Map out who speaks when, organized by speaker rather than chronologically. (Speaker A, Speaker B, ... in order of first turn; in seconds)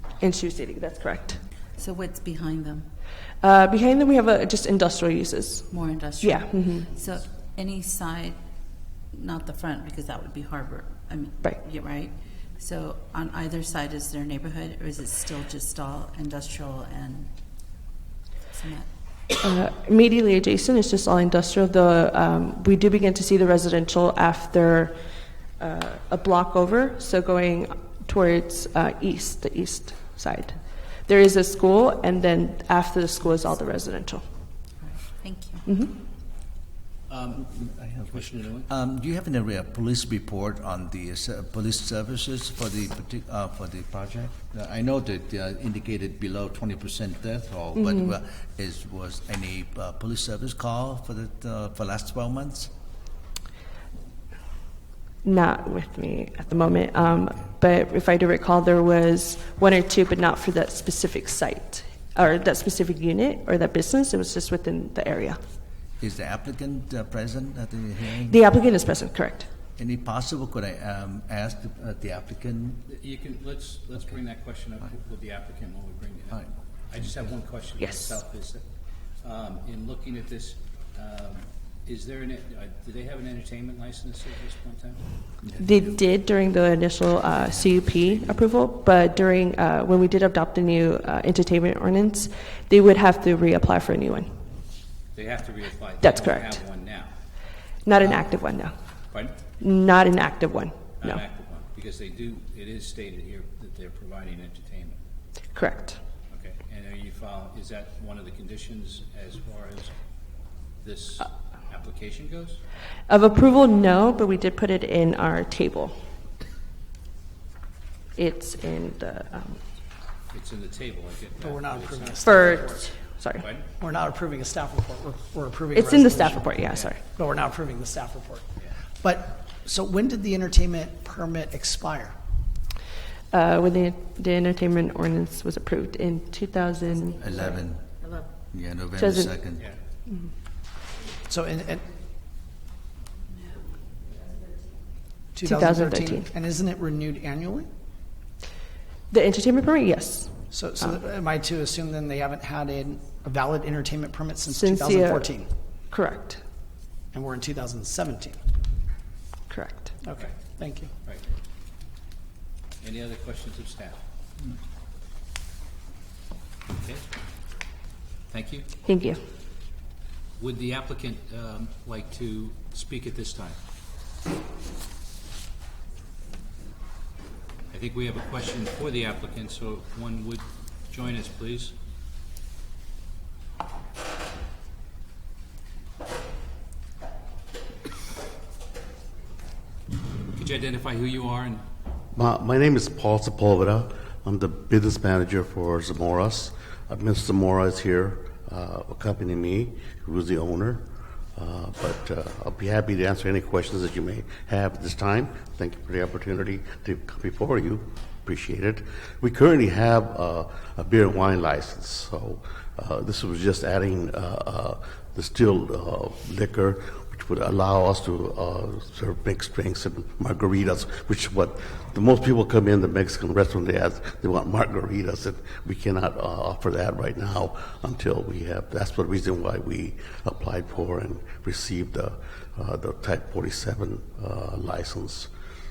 Speaker A: 0.2-1.4, 3.4-6.9, 19.4-25.0, 25.6-34.2, 35.7-36.0, 47.8-48.1, 55.2-65.4, 68.3-69.5, 77.8-78.1, 85.6-94.4, 96.0-96.6, 97.8-98.8, 99.6-101.2, 105.5-106.0, 113.1-116.0, 118.2-119.6, 122.2-123.5, 125.7-127.0, 133.3-137.2, 139.0-139.3, 145.4-146.3, 149.1-150.3, 154.5-155.3, 155.9-156.4, 159.5-159.9, 168.8-169.2
Speaker B: 1.8-2.9, 5.7-8.4, 9.1-17.3, 18.5-18.9, 34.8-35.7, 138.0-138.3
Speaker C: 37.1-37.5, 38.1-38.7, 72.9-78.7, 79.2-85.8, 95.1-97.1, 99.1-99.4, 101.0-105.0, 106.3-110.0, 110.8-112.6, 120.3-122.7, 123.4-123.7, 126.7-127.0, 162.8-164.0, 166.8-167.1, 168.3-168.7, 170.4-173.6, 177.7-181.8, 190.3-191.7
Speaker D: 37.4-52.7, 66.0-68.4, 69.8-72.8, 137.2-137.9, 138.5-139.6
Speaker E: 121.4-122.9, 123.8-132.2, 141.3-141.9, 145.3-147.7, 150.5-155.5, 157.1-158.4, 160.0-160.9
Speaker F: 192.1-200.8, 201.4-235.3